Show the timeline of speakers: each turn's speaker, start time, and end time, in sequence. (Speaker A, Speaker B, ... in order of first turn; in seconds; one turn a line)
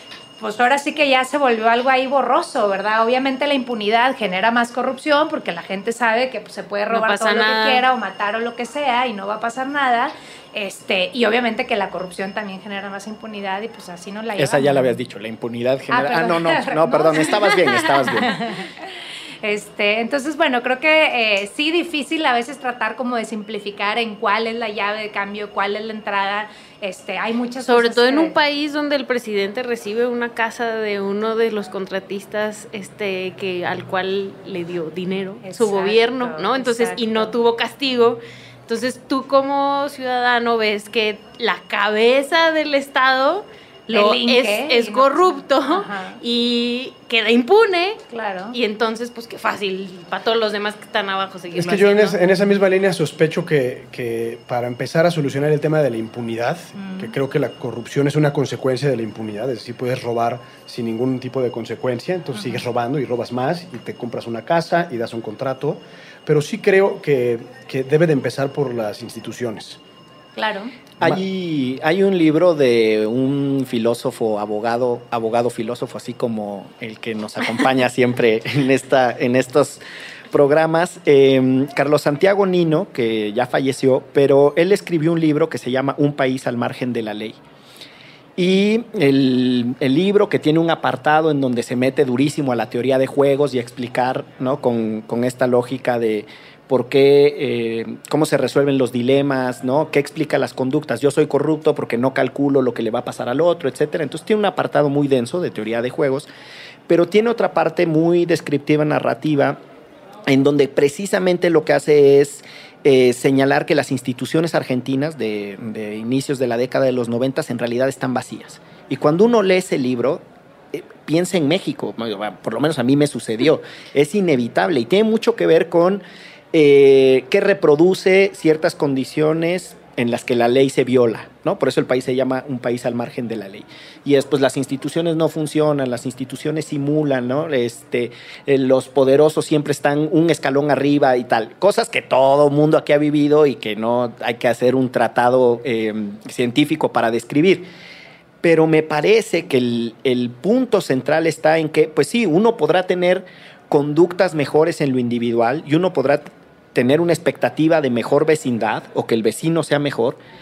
Speaker A: 0.4-14.9
Speaker B: 6.9-7.8
Speaker C: 14.4-18.4
Speaker A: 15.9-18.7
Speaker A: 19.4-28.4
Speaker B: 27.7-48.0
Speaker A: 35.4-37.3
Speaker A: 43.9-46.2
Speaker A: 48.1-48.6
Speaker B: 48.5-52.2
Speaker D: 51.5-69.8
Speaker A: 56.8-57.1
Speaker A: 62.4-62.6
Speaker A: 70.4-70.7
Speaker C: 71.0-87.4
Speaker C: 88.4-106.3
Speaker C: 106.9-109.6
Speaker C: 110.3-126.0
Speaker C: 126.5-147.7
Speaker C: 148.4-160.2